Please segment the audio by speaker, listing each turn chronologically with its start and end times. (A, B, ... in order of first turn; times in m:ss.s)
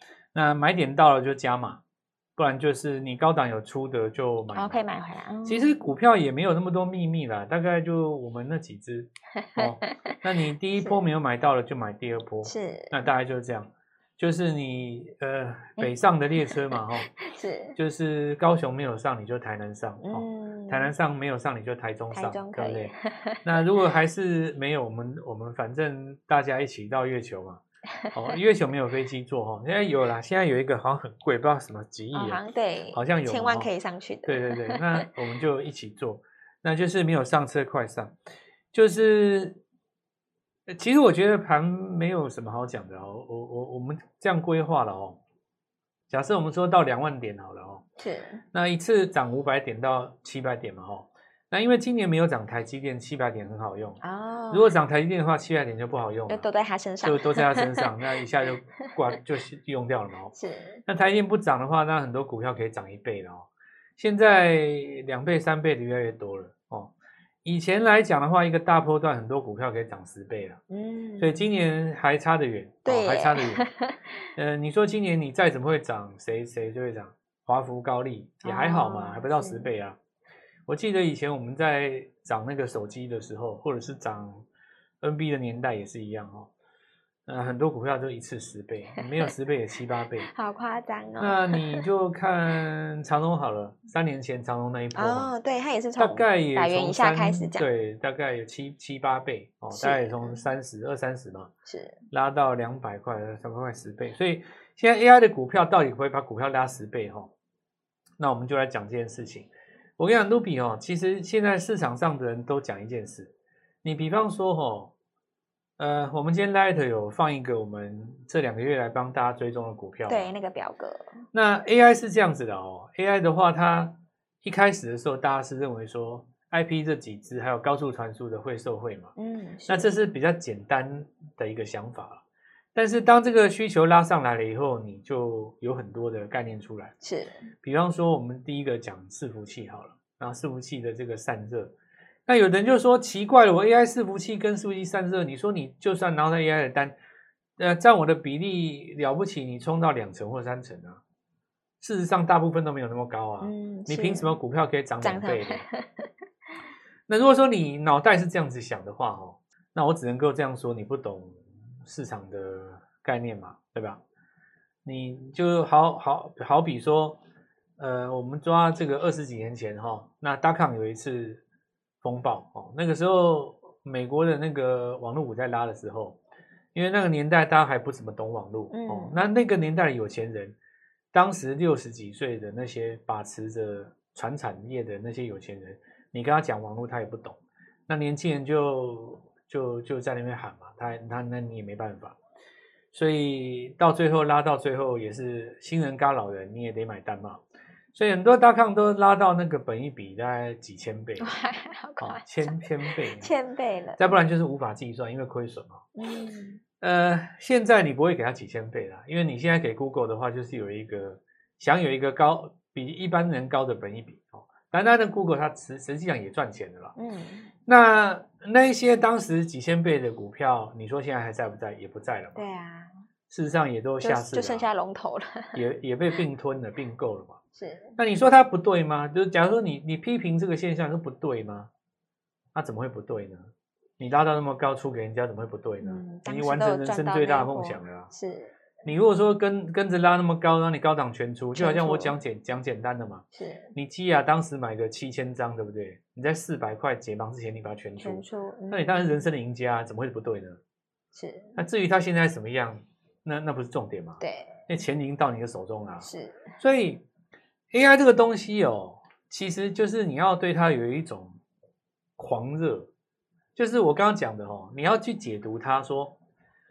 0:00.3-0:01.8 A
0:02.4-0:04.8 A
0:04.5-0:05.8 B
0:05.4-0:17.1 A
0:09.5-0:10.2 B
0:12.4-0:13.0 B
0:16.4-0:17.8 B
0:17.8-0:22.9 A
0:20.0-0:20.9 B
0:22.1-0:23.4 B
0:23.4-0:27.6 A
0:28.1-0:32.4 A
0:32.1-0:35.1 B
0:32.9-0:33.7 A
0:34.2-0:38.1 A
0:38.7-0:39.6 A
0:40.7-0:45.2 A
0:46.1-0:47.8 A
0:48.0-0:48.4 B
0:48.5-0:54.0 A
0:54.0-0:54.7 B
0:54.5-0:56.5 A
0:56.3-0:57.9 B
0:57.0-1:00.3 A
1:00.3-1:00.8 B
1:00.8-1:06.9 A
1:07.4-1:10.6 A
1:10.7-1:11.4 B
1:11.2-1:13.6 A
1:12.8-1:14.0 B
1:14.4-1:20.0 A
1:18.4-1:19.7 B
1:20.7-1:24.4 A
1:25.0-1:26.5 A
1:27.3-1:30.3 A
1:30.2-1:31.8 B
1:31.2-1:35.3 A
1:34.9-1:37.6 B
1:36.0-1:41.5 A
1:39.7-1:40.4 B
1:41.6-1:42.0 B
1:42.1-1:47.3 A
1:48.2-1:53.3 A
1:53.8-1:54.9 A
1:55.8-2:00.3 A
2:00.1-2:01.1 B
2:01.3-2:09.1 A
2:09.2-2:09.9 B
2:09.7-2:12.2 A
2:12.7-2:16.9 A
2:17.0-2:17.5 B
2:17.6-2:21.7 A
2:22.3-2:26.9 A
2:27.6-2:31.0 A
2:31.8-2:35.6 A
2:33.4-2:34.4 B
2:35.0-2:36.0 B
2:37.1-2:44.0 A
2:44.8-2:47.2 A
2:47.8-2:51.4 A
2:52.0-2:56.2 A
2:56.7-3:00.5 A
2:58.7-2:59.2 B
3:01.1-3:12.2 A
3:12.9-3:17.4 A
3:17.9-3:21.3 A
3:21.2-3:24.2 B
3:22.0-3:23.3 A
3:24.0-3:25.8 A
3:26.0-3:26.6 B
3:26.8-3:36.9 A
3:37.0-3:37.5 B
3:37.6-3:42.4 A
3:42.3-3:42.9 B
3:43.3-3:44.6 A
3:44.0-3:45.6 B
3:45.5-3:47.4 A
3:47.6-3:48.0 B
3:48.0-3:51.7 A
3:52.5-3:58.1 A
3:55.8-3:58.5 B
3:58.8-4:03.2 A
4:01.5-4:02.1 B
4:03.3-4:03.7 B
4:03.7-4:10.6 A
4:08.0-4:09.2 B
4:11.1-4:11.6 B
4:11.6-4:16.1 A
4:14.2-4:14.6 B
4:16.0-4:16.5 B
4:16.6-4:17.0 A
4:17.7-4:21.4 A
4:22.2-4:22.9 A
4:23.6-4:26.1 A